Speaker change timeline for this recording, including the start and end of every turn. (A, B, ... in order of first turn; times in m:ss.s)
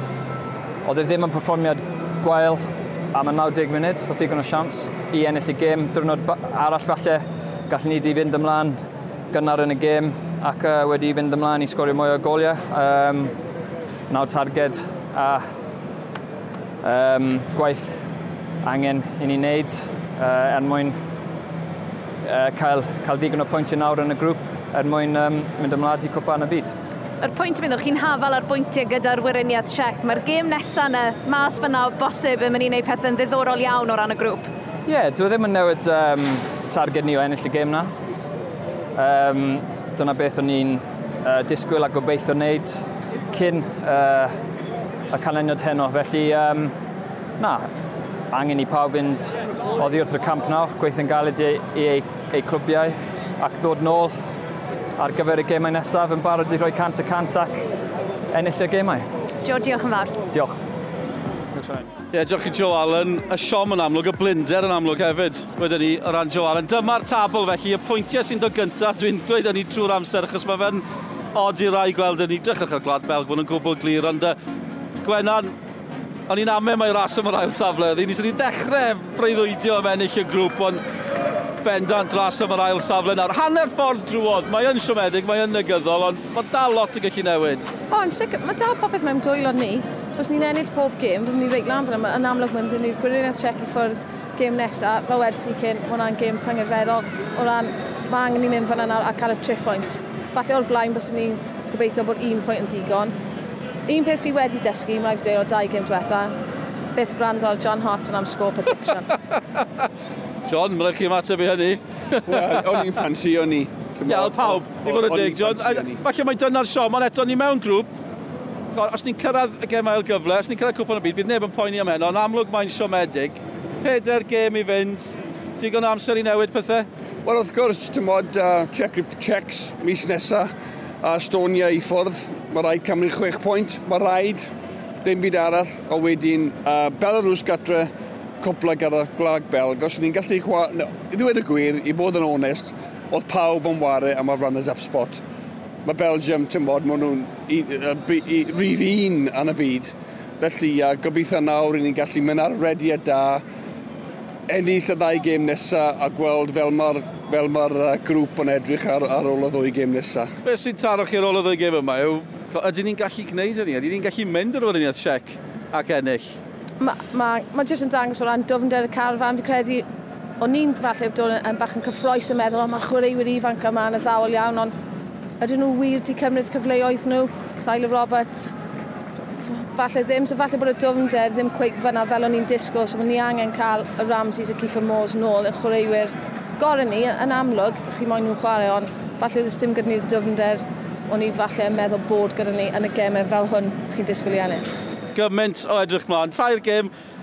0:00.8-0:08.8 A
0:09.3-0:13.3 A
0:14.1-0:15.6 A
0:16.8-0:18.1 A
0:18.6-0:21.0 A
0:22.2-0:26.8 A
0:27.2-0:34.5 B
0:34.9-0:37.9 A
0:39.0-0:44.4 A
0:45.1-0:46.8 A
0:47.4-0:47.7 A
0:48.3-0:54.2 A
0:55.0-0:57.7 A
0:58.3-0:59.1 A
0:59.4-1:00.2 B
1:00.3-1:00.6 A
1:01.6-1:01.8 A
1:02.1-1:14.4 C
1:15.0-1:15.6 C
1:16.3-1:20.8 C
1:21.6-1:27.7 C
1:27.9-1:43.2 D
1:43.9-1:46.4 D
1:47.0-1:49.1 D
1:50.5-1:52.8 C
1:52.3-1:56.0 E
1:54.1-1:57.9 C
1:58.7-2:06.9 C
2:07.2-2:10.5 E
2:11.0-2:14.5 E
2:15.0-2:17.9 E
2:18.4-2:25.2 E
2:25.8-2:33.4 E
2:34.5-2:40.3 E
2:40.4-2:46.4 C
2:46.8-2:49.8 D
2:50.4-2:54.7 D
2:55.4-2:58.6 D
2:59.4-3:14.7 D
3:15.1-3:16.9 C